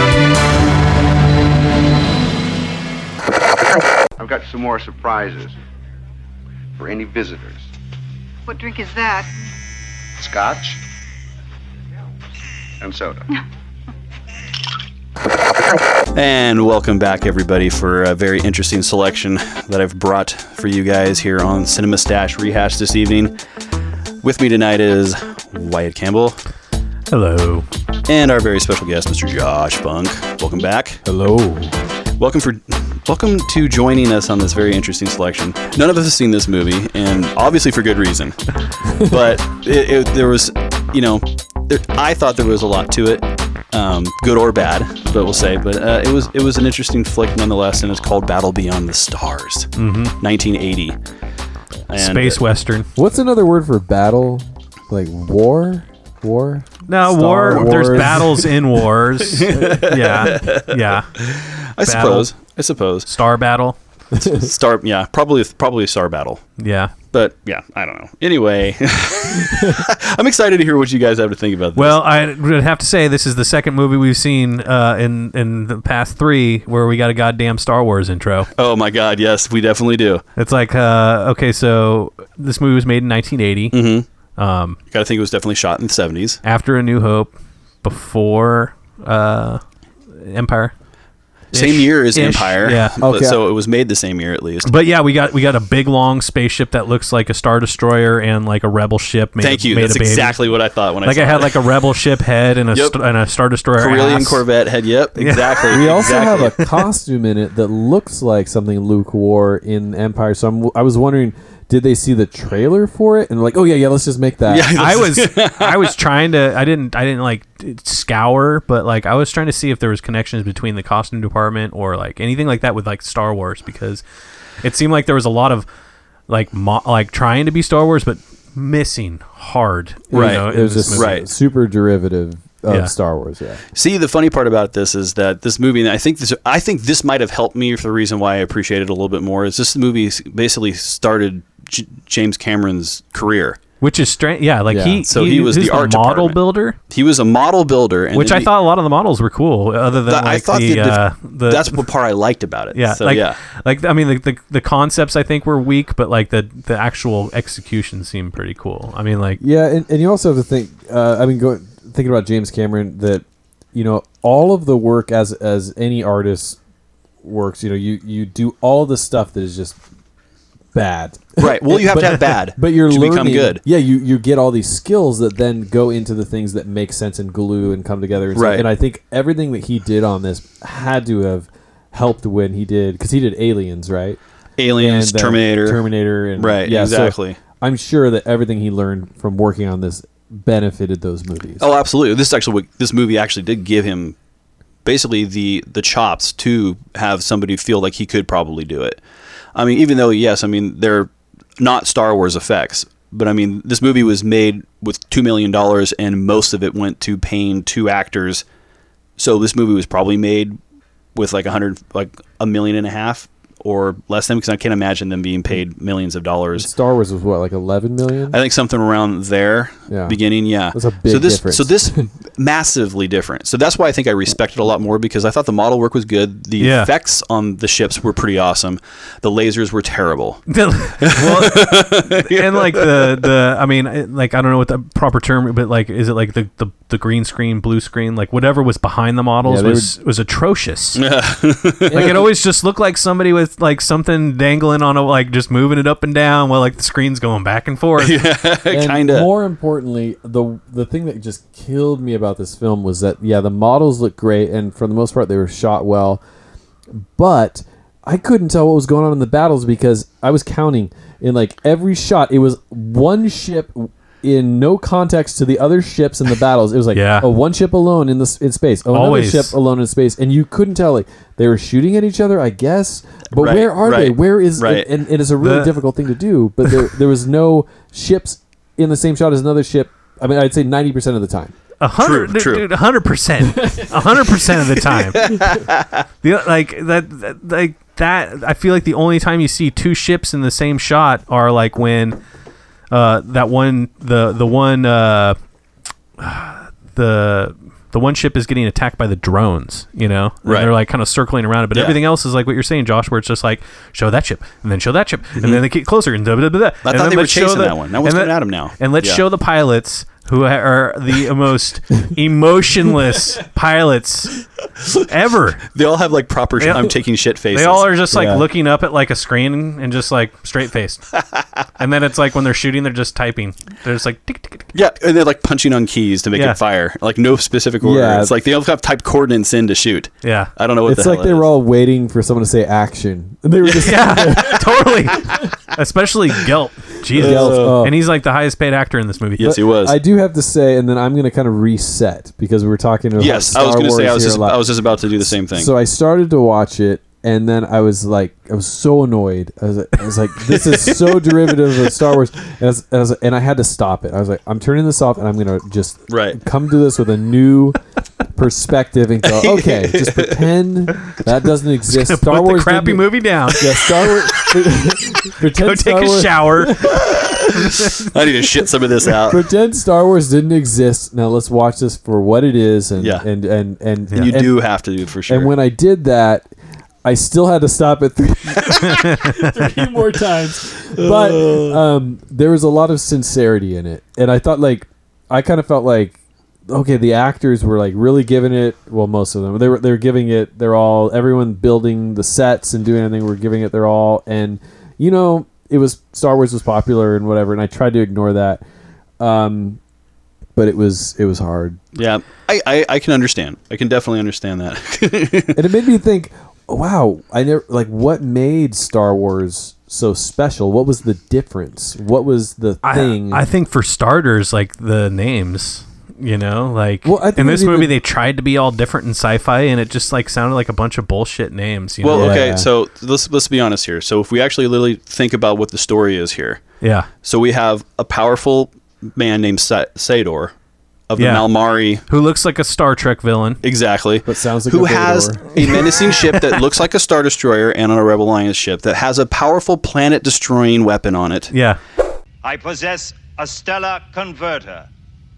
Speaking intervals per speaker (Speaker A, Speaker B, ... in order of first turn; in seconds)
Speaker A: 4.2-5.6, 6.8-7.7, 10.2-10.8, 12.8-13.2
Speaker B: 16.1-23.4, 24.2-26.4, 28.1-31.0, 32.2-38.4, 39.0-49.7, 50.2-51.0, 51.9-52.4, 57.5-58.2, 59.3-63.1, 64.2-66.4, 67.1-72.0, 78.5-80.2, 83.7-84.0, 84.9-86.4, 91.5-94.7, 99.4-101.6, 103.8-106.5, 114.5-116.0, 130.1-131.2, 133.7-143.6, 145.1-148.5, 150.1-153.4, 171.4-173.6, 178.3-178.7, 184.6-185.8, 186.3-187.4, 191.6-194.1, 194.8-199.0, 199.5-208.4, 209.2-210.6, 211.1-216.7, 218.3-230.4, 231.0-233.1, 240.9-242.2, 248.0-249.3, 273.3-274.9, 282.0-282.7, 284.8-286.0, 300.4-300.7, 306.8-309.2, 315.7-317.9, 324.7-331.5, 333.7-334.6, 337.1-337.8, 339.4-340.0, 343.2-345.7, 356.1-356.4, 359.2-360.5, 366.8-369.4, 373.0-373.2, 374.2-375.5, 381.0-381.8, 401.9-405.6, 422.0-426.6, 427.2-430.5, 431.1-432.0, 433.6-441.5
Speaker C: 27.1-27.6, 49.8-50.1, 51.9-52.9, 56.9-61.1, 61.8-62.3, 63.0-63.8, 66.6-66.9, 71.8-78.5, 80.4-83.8, 84.4-84.8, 86.4-89.6, 90.1-90.7, 91.5-92.9, 94.6-100.5, 101.0-104.4, 105.2-105.8, 114.7-124.0, 124.6-125.7, 126.3-131.2, 143.8-146.8, 148.1-151.8, 152.7-159.4, 226.6-226.9, 230.5-241.0, 241.9-248.2, 266.9-267.3, 268.9-269.5, 275.4-275.7, 281.8-285.3, 286.2-292.2, 292.9-295.4, 296.2-314.4, 315.1-315.6, 316.6-317.0, 317.5-321.0, 321.8-324.7, 330.2-330.5, 333.8-339.5, 361.9-364.4, 365.5-368.1, 378.7-379.5, 412.8-422.4, 426.8-427.1, 431.2-431.5, 432.1-433.6, 435.6-436.6, 441.5-441.8
Speaker D: 31.0-31.7, 53.0-58.5, 64.2-64.4, 93.0-93.4, 105.7-114.8, 130.1-133.6, 144.7-145.0, 159.4-166.6, 167.2-169.8, 170.7-184.2, 184.8-191.7, 216.5-218.4, 219.9-220.2, 220.7-222.1, 239.4-239.9, 241.9-242.2, 248.7-256.2, 256.9-281.5, 318.1-318.4, 327.8-328.3, 330.8-335.4, 337.1-338.0, 339.4-344.6, 345.2-357.8, 358.3-367.2, 369.3-374.6, 375.3-376.5, 377.0-386.2, 386.7-398.6, 399.2-399.8, 400.6-401.8, 405.5-413.4, 417.0-417.9, 422.1-422.7, 434.2-435.8
Speaker E: 442.4-444.9